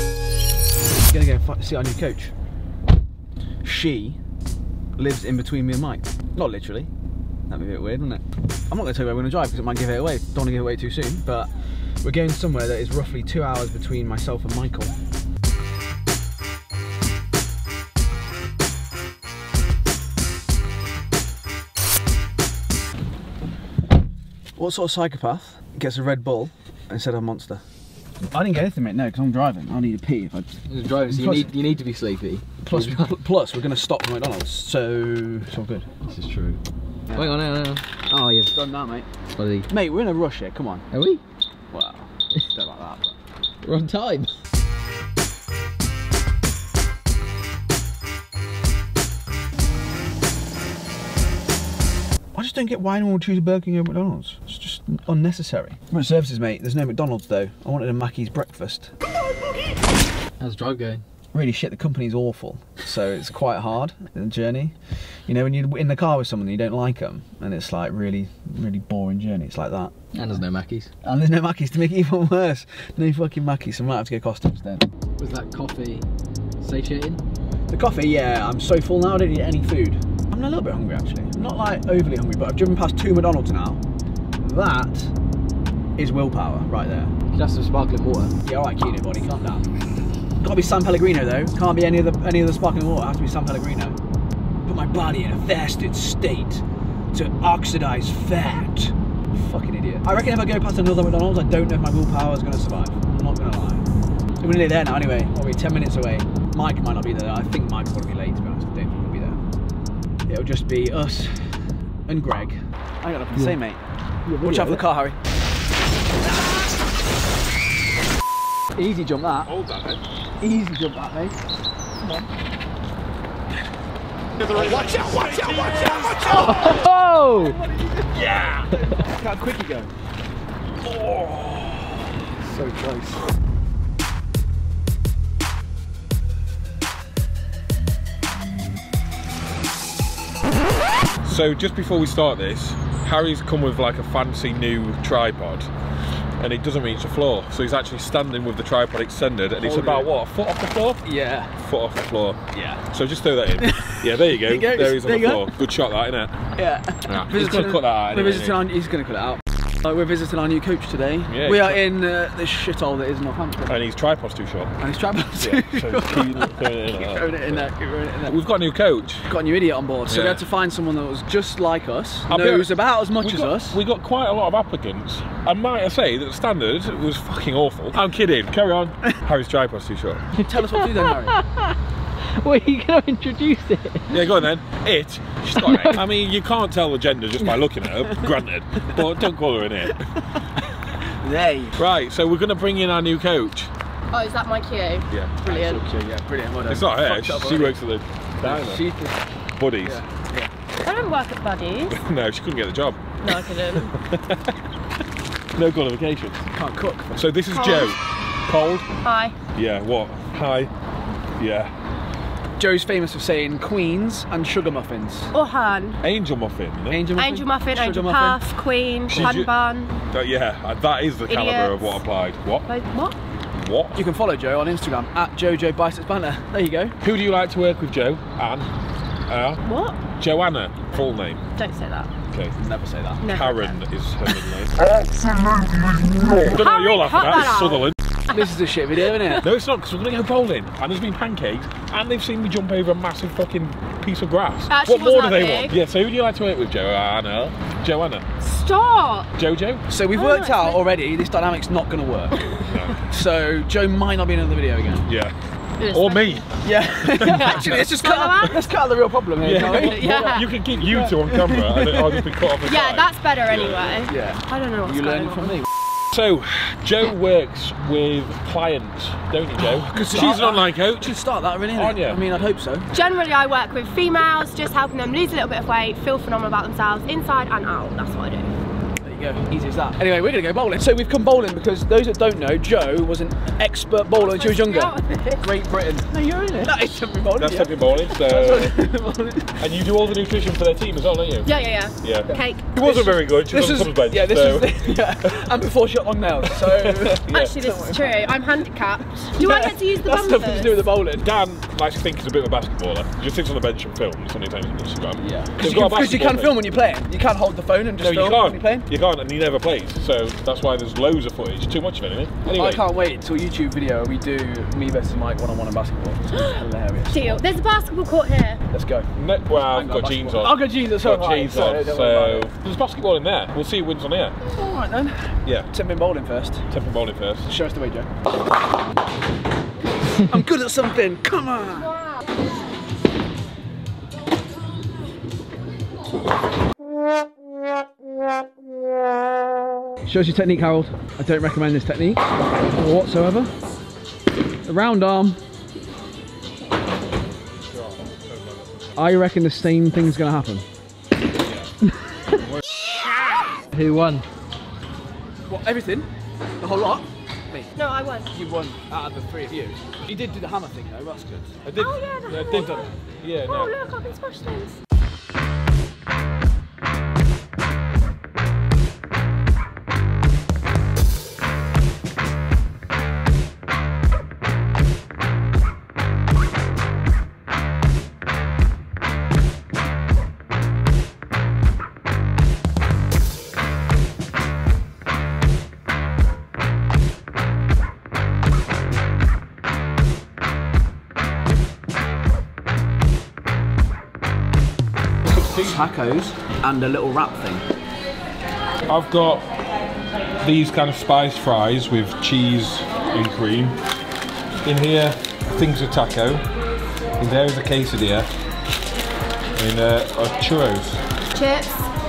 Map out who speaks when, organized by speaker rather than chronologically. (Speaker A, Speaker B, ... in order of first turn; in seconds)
Speaker A: 1.1-2.3, 3.6-4.2, 5.0-6.9, 7.5-11.5, 12.0-14.9, 24.6-27.6, 28.3-30.5, 31.0-31.5, 32.6-36.0, 37.1-37.4, 38.1-39.1, 39.7-40.9, 41.7-43.1, 52.3-58.9, 61.3-69.9, 71.0-74.9, 77.7-83.8, 84.4-85.1, 86.0-87.1, 88.4-89.7, 90.4-94.0, 94.7-103.8, 104.4-109.4, 110.3-113.8, 114.3-115.2, 118.7-119.5, 120.4-121.3, 124.4-129.9, 131.1-131.6, 132.5-133.2, 149.6-150.1, 151.0-151.5, 152.5-152.8, 153.6-153.9, 154.5-155.5, 156.6-163.8, 164.8-168.4, 169.3-173.8, 180.4-181.3, 185.6-185.9, 187.4-188.2, 189.0-189.2, 191.2-191.8, 195.4-197.8, 198.4-199.2, 199.8-200.5, 206.5-207.2, 212.6-215.3, 216.9-218.4, 223.9-226.9, 232.6-233.3, 238.3-239.4, 249.9-252.5, 253.1-255.1, 256.6-262.3, 263.9-265.6, 269.6-272.9, 279.0-289.6, 292.8-298.4, 299.3-301.3, 305.2-308.9, 312.5-317.5, 318.7-319.1, 319.7-322.5, 324.5-326.6, 327.4-328.1, 330.3-331.9, 340.0-342.2, 342.7-343.5, 344.7-345.4, 348.9-350.6, 355.4-356.1, 356.6-357.7, 358.3-361.6, 362.6-362.9, 395.6-397.6
Speaker B: 30.7-33.1, 36.0-36.6, 37.1-38.5, 39.4-39.7, 40.9-41.2, 43.6-44.3, 60.4-61.0, 70.1-70.9, 75.2-76.0, 76.6-77.2, 87.3-88.3, 114.3-114.8, 126.3-127.6, 180.4-181.7, 182.4-184.1, 185.5-186.0, 353.7-354.2
Speaker C: 119.4-120.0, 124.5-126.5, 128.2-128.7, 141.2-145.7, 146.4-152.4, 152.9-156.3, 157.0-158.7, 161.3-161.8, 163.7-164.7, 165.3-167.7, 168.2-169.3, 170.1-170.4, 172.3-180.2, 184.1-190.0, 191.7-193.7, 195.1-195.4, 196.6-198.9, 199.6-200.0, 201.9-204.5, 205.5-206.4, 207.1-208.8, 209.5-210.7, 211.4-211.7, 216.0-217.0, 219.1-219.5, 220.1-222.7, 223.6-224.0, 227.0-228.7, 229.3-229.6, 230.2-231.4, 232.3-232.5, 233.3-234.7, 236.4-238.0, 239.4-248.2, 249.3-249.8, 252.6-253.0, 255.1-255.3, 255.9-256.4, 257.1-257.8, 259.4-263.8, 266.1-271.2, 271.7-272.3, 287.4-288.8, 289.6-295.5, 296.4-297.5, 301.2-306.6, 308.0-312.9, 319.1-324.4, 325.4-325.7, 326.7-327.5, 347.7-349.0, 352.7-353.4, 361.6-363.7, 395.2-395.9, 398.9-399.4, 400.4-403.8, 404.6-406.4, 407.2-408.3, 409.6-411.0
Speaker D: 194.1-195.8, 200.8-202.0, 203.2-203.9, 207.5-207.9, 209.0-209.3, 215.3-216.0, 217.2-219.9, 221.3-222.0, 222.7-223.2, 229.6-230.0, 231.5-232.1, 233.2-233.8, 236.4-238.4, 244.7-245.8, 248.4-249.3, 250.1-250.8, 255.8-256.4, 257.2-258.7, 259.5-260.5, 262.6-265.6, 272.9-278.5, 284.1-285.4, 291.4-292.7, 297.2-300.9, 316.3-318.6, 357.7-358.3, 361.7-362.9, 363.4-364.8, 411.3-411.9